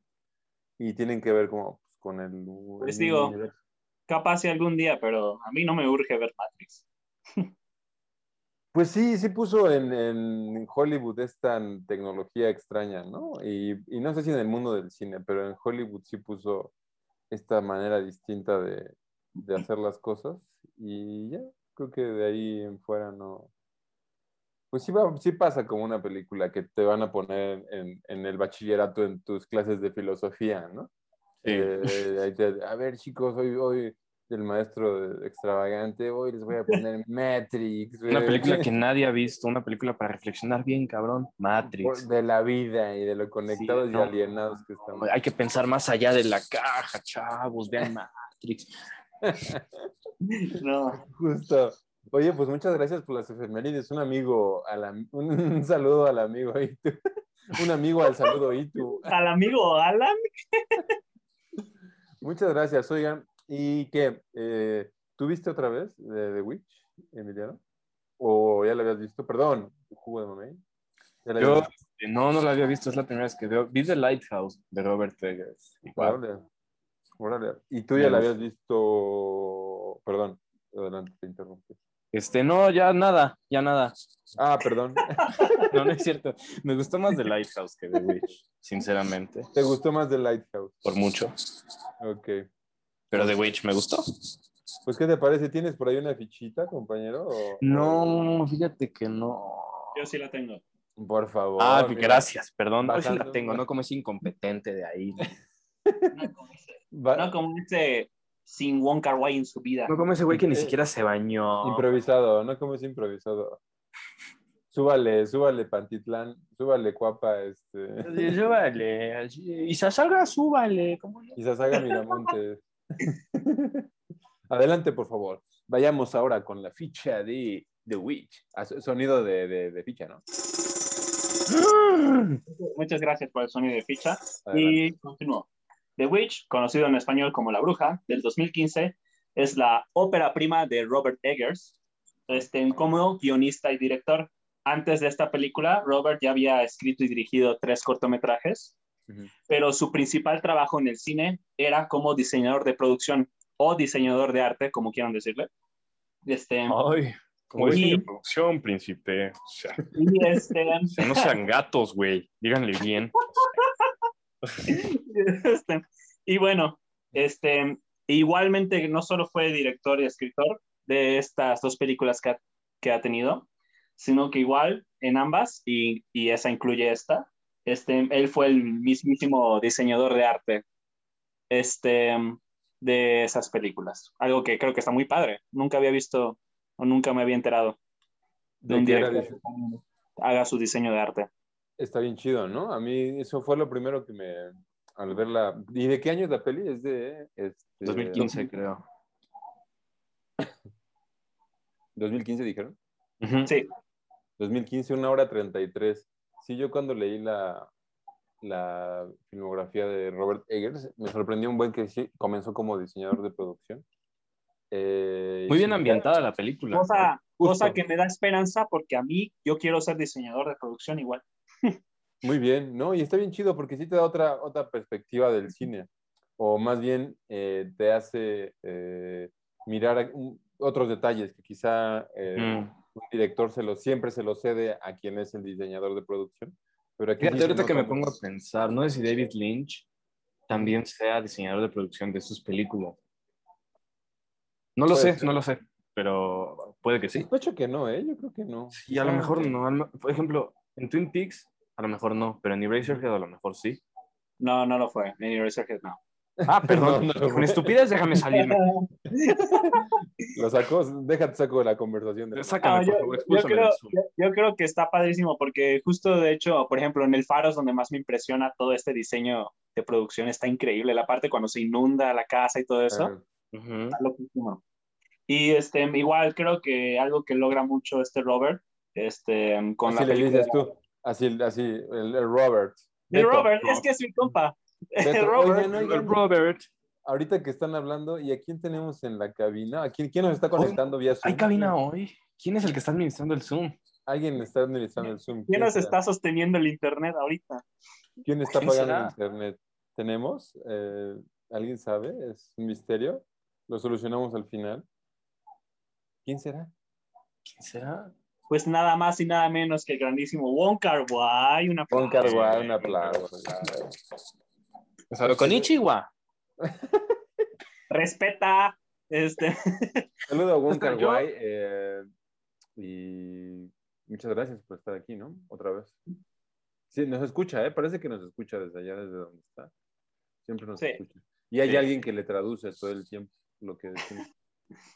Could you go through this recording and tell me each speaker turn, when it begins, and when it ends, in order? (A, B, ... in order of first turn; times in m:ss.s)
0:00.8-0:03.5 A
0:02.8-0:03.3 B
0:04.1-0:06.8 B
0:08.7-0:16.7 A
0:17.3-0:23.5 A
0:24.7-0:30.9 A
0:31.4-0:31.9 C
0:31.4-0:38.7 A
0:38.1-0:42.0 C
0:41.6-0:45.1 A
0:43.5-0:44.1 C
0:44.9-0:48.7 C
0:49.2-0:49.9 A
0:50.3-0:51.0 B
0:51.0-0:57.0 A
0:57.5-0:59.1 A
0:58.9-1:00.8 B
1:02.2-1:07.6 A
1:08.2-1:10.6 A
1:11.2-1:11.7 A
1:11.4-1:16.2 C
1:15.9-1:16.4 A
1:17.2-1:21.8 A
1:17.9-1:18.3 C
1:22.1-1:23.9 C
1:24.4-1:25.5 A
1:25.3-1:25.7 B
1:25.7-1:29.5 C
1:29.5-1:30.7 A
1:30.8-1:31.3 C
1:32.0-1:32.4 A
1:33.1-1:34.0 C
1:33.1-1:33.4 A
1:34.8-1:38.2 A
1:37.6-1:40.0 C
1:39.9-1:40.6 B
1:41.0-1:42.3 A
1:41.6-1:45.3 C
1:42.8-1:43.6 A
1:45.9-1:46.1 A
1:46.1-1:49.9 B
1:46.9-1:47.3 A
1:49.9-1:51.8 C
1:50.3-1:50.7 A
1:51.6-1:53.6 A
1:54.7-1:58.3 A
1:58.0-2:01.4 C
2:01.4-2:03.9 A
2:04.5-2:10.2 A
2:11.5-2:12.4 C
2:12.5-2:21.8 B
2:14.4-2:14.8 A
2:22.3-2:28.8 B
2:29.5-2:35.5 B
2:36.2-2:36.8 B
2:36.7-2:39.8 C
2:37.5-2:38.0 A
2:37.7-2:38.0 B
2:39.9-2:41.3 B
2:40.9-2:43.5 C
2:43.4-2:43.9 B
2:44.6-3:00.6 B
3:01.5-3:07.8 B
3:08.6-3:09.4 A
3:08.7-3:11.3 B
3:11.8-3:18.3 A
3:17.8-3:18.8 C
3:22.0-3:22.8 A
3:23.2-3:23.5 C
3:24.4-3:27.7 A
3:28.4-3:33.8 A
3:34.7-3:36.0 A
3:35.5-3:37.1 C
3:36.7-3:41.7 B
3:37.4-3:37.8 A
3:42.2-3:58.0 A
3:52.4-3:52.7 C
3:57.2-3:59.9 C
4:00.5-4:03.0 C
4:04.8-4:07.3 C
4:04.9-4:05.3 A
4:07.1-4:09.5 A
4:08.7-4:13.8 C
4:14.4-4:16.0 B
4:16.4-4:17.7 A
4:16.5-4:18.6 C
4:18.3-4:19.8 B
4:19.5-4:19.8 A
4:20.3-4:22.7 A
4:22.3-4:24.0 C
4:22.6-4:33.1 B
4:32.9-4:33.2 A
4:33.5-4:34.0 C
4:33.9-4:34.6 B
4:35.3-4:40.7 B
4:39.8-4:43.5 A
4:43.1-4:45.7 B
4:45.0-4:46.2 A
4:45.5-4:46.7 C
4:47.0-4:51.7 A
4:50.6-4:53.8 C
4:54.1-4:56.0 A
4:55.5-4:57.6 B
4:58.2-5:04.8 A
4:58.5-4:59.1 C
5:06.2-5:06.7 A
5:07.4-5:08.1 C
5:08.5-5:12.3 B
5:11.9-5:13.9 A
5:12.0-5:13.2 C
5:15.1-5:16.1 C
5:15.2-5:15.7 A
5:16.6-5:17.1 A
5:17.9-5:20.1 B
5:20.3-5:22.0 A
5:20.7-5:21.2 C
5:22.8-5:26.0 A
5:26.9-5:29.7 A
5:30.4-5:34.2 A